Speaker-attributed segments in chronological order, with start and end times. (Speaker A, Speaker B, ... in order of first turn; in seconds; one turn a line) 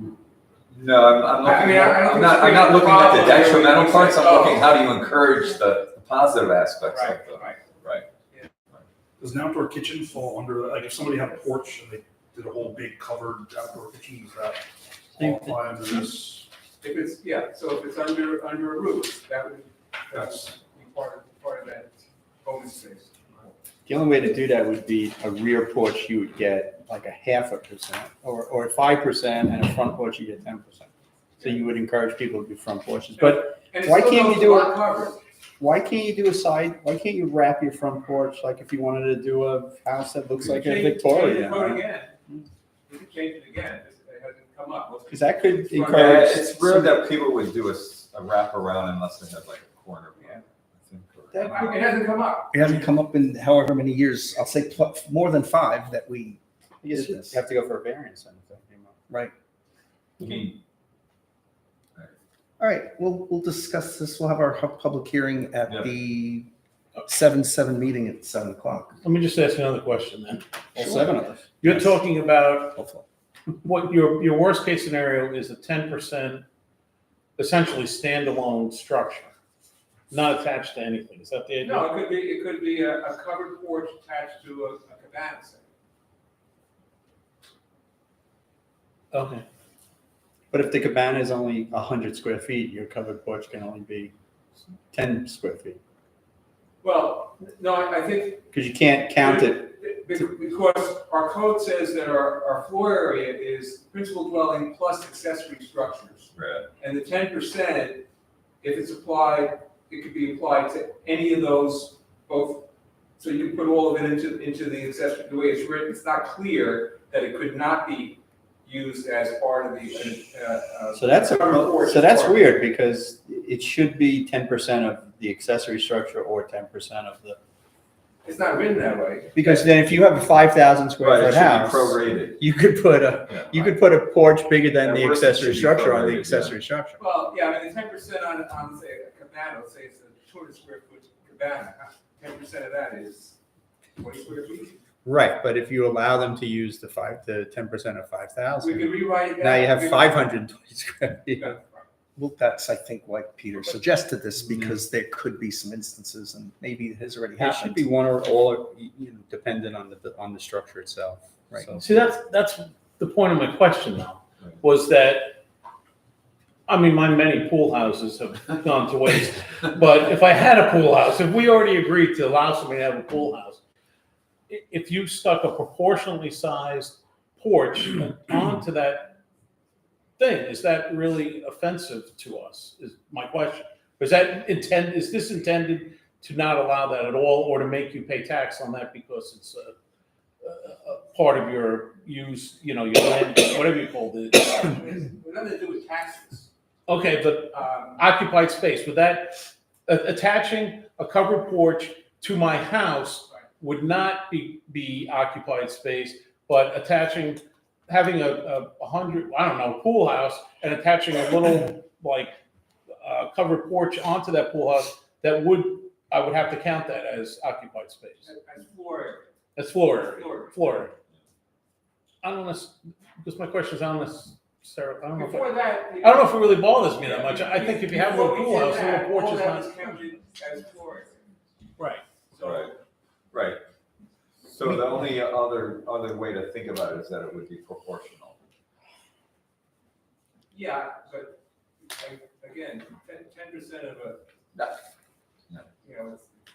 Speaker A: 0.7-8.1
Speaker B: 1.4-4.7
Speaker B: 6.9-7.6
Speaker C: 9.2-16.5
Speaker B: 16.8-23.6
Speaker C: 20.1-20.5
Speaker D: 23.9-30.9
Speaker D: 31.4-34.7
Speaker B: 33.1-35.2
Speaker D: 35.6-42.4
Speaker B: 40.4-42.1
Speaker B: 42.9-46.4
Speaker D: 45.1-47.0
Speaker A: 45.9-51.8
Speaker B: 50.2-50.4
Speaker B: 51.3-52.7
Speaker E: 52.5-57.4
Speaker D: 56.8-59.1
Speaker A: 60.2-60.5
Speaker E: 62.6-66.5
Speaker E: 67.1-69.0
Speaker F: 69.0-72.8
Speaker E: 70.8-71.1
Speaker D: 70.8-71.5
Speaker E: 72.8-73.0
Speaker F: 73.6-76.5
Speaker F: 77.4-79.3
Speaker F: 80.1-81.9
Speaker B: 81.6-85.7
Speaker F: 89.1-89.4
Speaker D: 90.5-94.1
Speaker D: 94.9-95.8
Speaker B: 96.8-98.5
Speaker D: 98.5-99.7
Speaker B: 99.2-108.1
Speaker A: 106.3-106.7
Speaker B: 108.6-122.4
Speaker D: 120.9-127.4
Speaker B: 128.2-129.7
Speaker D: 129.3-137.0
Speaker A: 131.0-132.4
Speaker A: 133.3-133.8
Speaker A: 134.8-136.6
Speaker B: 137.0-143.4
Speaker B: 144.0-144.8
Speaker D: 145.0-151.4
Speaker B: 148.6-150.2
Speaker B: 151.3-151.9
Speaker E: 152.2-157.9
Speaker D: 157.4-161.8
Speaker F: 161.8-165.4
Speaker F: 166.7-173.6
Speaker F: 174.5-179.2
Speaker F: 180.2-189.7
Speaker F: 190.4-194.8
Speaker B: 194.8-196.5
Speaker F: 196.9-212.3
Speaker B: 197.5-198.0
Speaker F: 213.0-218.3
Speaker B: 218.2-219.3
Speaker F: 219.6-220.9
Speaker B: 220.1-220.6
Speaker F: 222.2-229.8
Speaker B: 225.2-231.2
Speaker F: 231.8-232.0
Speaker B: 232.3-232.8
Speaker A: 232.4-232.7
Speaker A: 233.3-233.6
Speaker A: 234.4-238.4
Speaker B: 240.5-241.4
Speaker B: 241.9-244.2
Speaker A: 244.5-244.8
Speaker B: 245.8-246.4